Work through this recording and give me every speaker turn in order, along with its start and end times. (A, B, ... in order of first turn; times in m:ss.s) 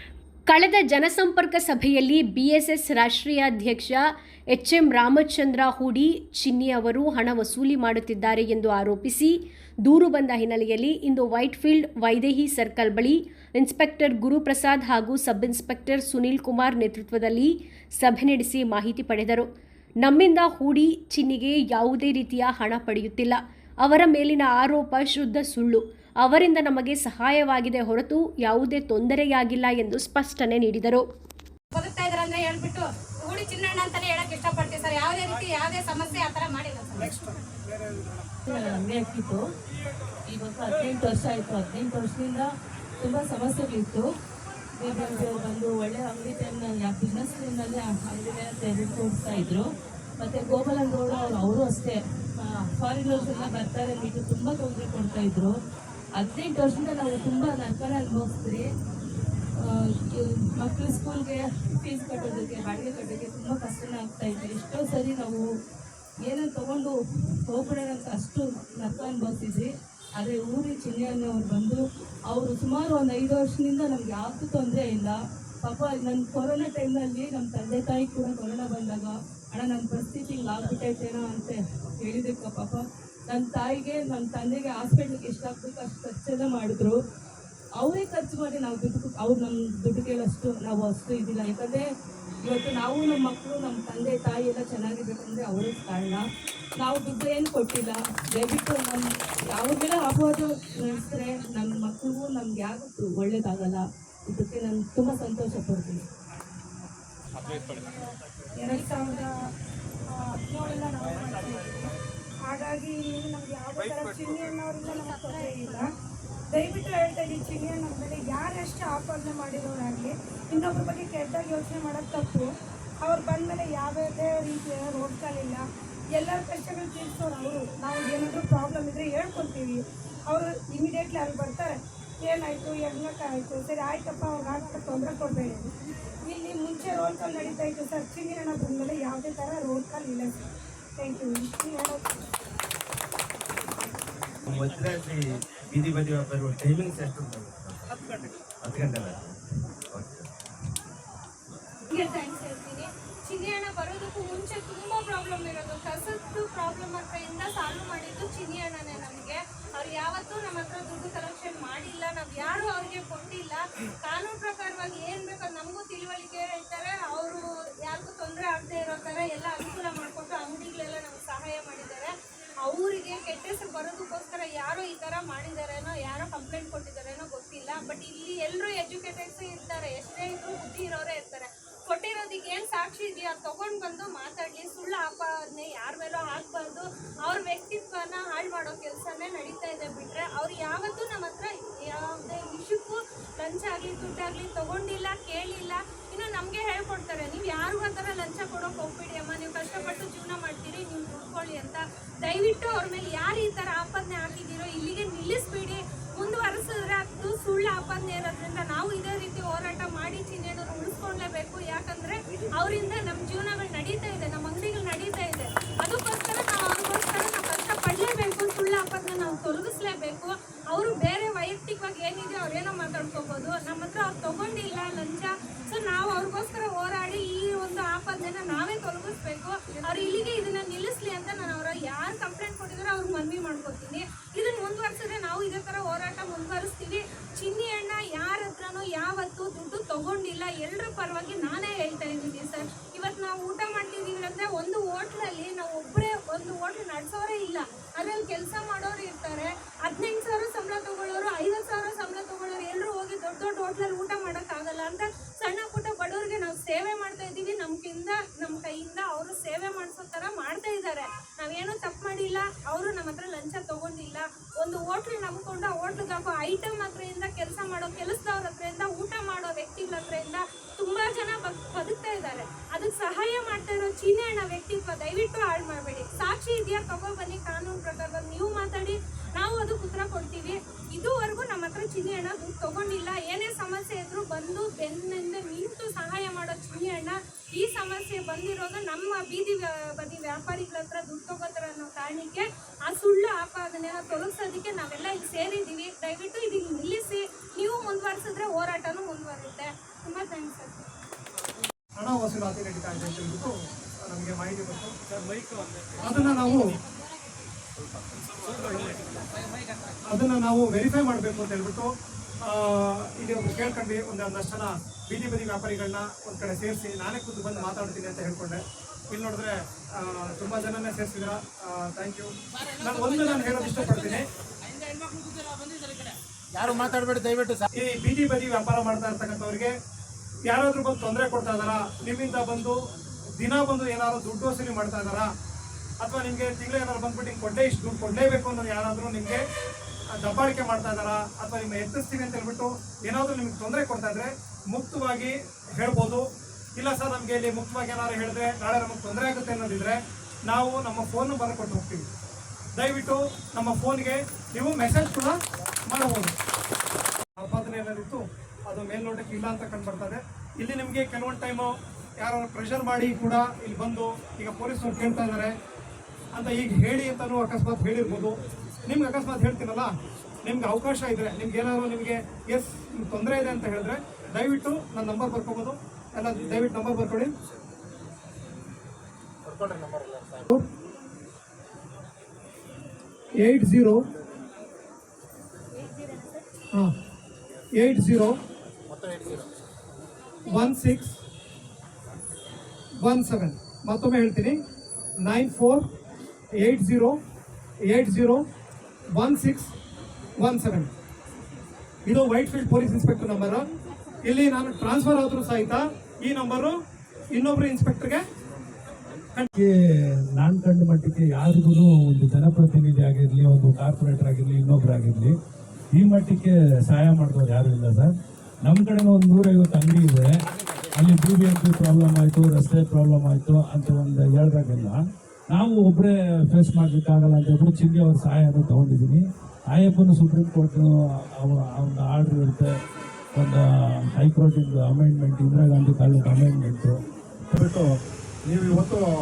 0:00.5-0:19.5 A
0:20.0-0:31.0 A
0:31.8-0:37.1 B
0:35.2-0:35.6 C
0:36.9-0:38.3 C
0:38.4-0:39.4 D
0:40.3-0:42.5 D
0:43.0-0:44.0 D
0:44.8-0:55.5 D
0:56.1-0:58.6 D
0:59.6-1:05.4 D
1:06.2-1:06.9 D
1:07.4-1:27.0 D
1:27.8-1:31.8 D
1:32.4-1:36.2 D
1:36.8-1:46.0 D
1:47.4-1:49.3 E
1:50.1-1:51.9 E
1:52.5-1:55.9 E
1:56.5-2:02.5 E
2:03.0-2:05.6 E
2:06.1-2:15.7 E
2:16.2-2:20.3 E
2:21.0-2:22.2 E
2:24.5-2:27.8 F
2:28.6-2:29.3 F
2:30.0-2:30.2 F
2:31.9-5:00.8 G
5:02.0-5:05.1 C
5:06.0-5:06.6 C
5:08.4-5:08.9 C
5:10.1-5:11.9 C
5:12.4-5:24.2 C
5:26.6-5:27.6 H
5:27.7-5:29.7 C
5:30.5-5:32.8 C
5:33.4-5:35.3 C
5:36.0-5:39.4 C
5:40.1-5:46.2 C
5:46.8-5:52.1 C
5:52.8-5:55.3 C
5:55.9-5:56.3 C
5:57.4-6:05.5 C
6:06.3-6:08.3 C
6:08.8-6:09.9 C
6:10.4-6:17.3 C
6:19.4-6:20.5 H
6:23.4-6:24.0 C
6:27.7-6:28.4 C
6:28.9-6:29.5 H
6:30.5-6:31.2 C
6:33.0-6:34.6 C
6:35.2-6:35.8 C
6:36.6-6:37.2 C
6:37.8-6:38.4 C
6:39.1-6:39.7 C
6:40.4-6:40.9 C
6:42.0-6:43.6 C
6:44.2-6:46.7 C
6:47.3-6:48.2 C
6:50.3-6:55.3 I
6:55.9-7:00.3 I
7:00.9-7:12.7 I
7:13.3-7:17.0 I
7:17.5-7:17.9 H
7:18.5-7:19.0 H